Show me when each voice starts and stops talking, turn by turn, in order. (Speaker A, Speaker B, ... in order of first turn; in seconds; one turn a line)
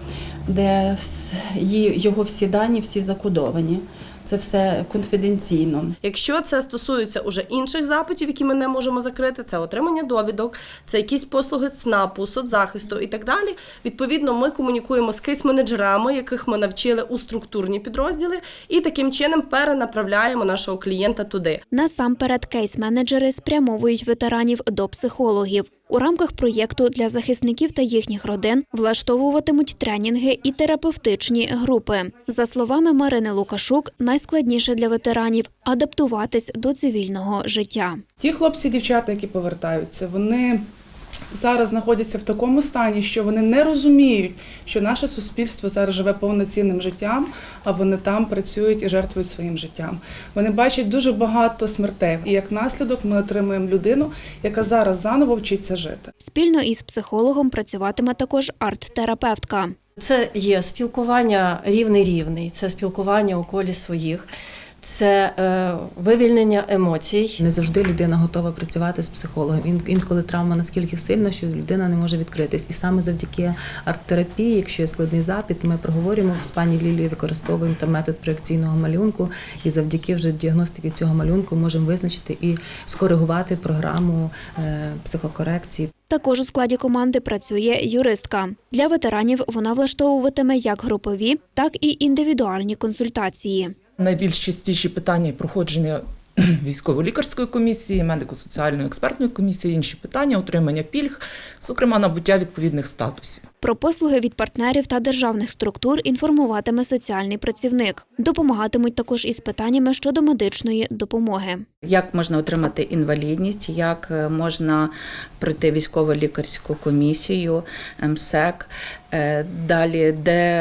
Speaker A: 0.5-5.9
Speaker B: 6.0-21.6
Speaker C: 21.7-38.0
Speaker D: 38.2-40.6
Speaker D: 41.3-56.1
Speaker C: 56.2-59.8
Speaker E: 60.0-64.3
Speaker E: 64.8-67.4
Speaker F: 67.4-85.9
Speaker C: 86.1-93.7
Speaker G: 94.0-103.5
Speaker C: 103.6-111.6
Speaker H: 111.8-114.9
Speaker H: 115.4-120.4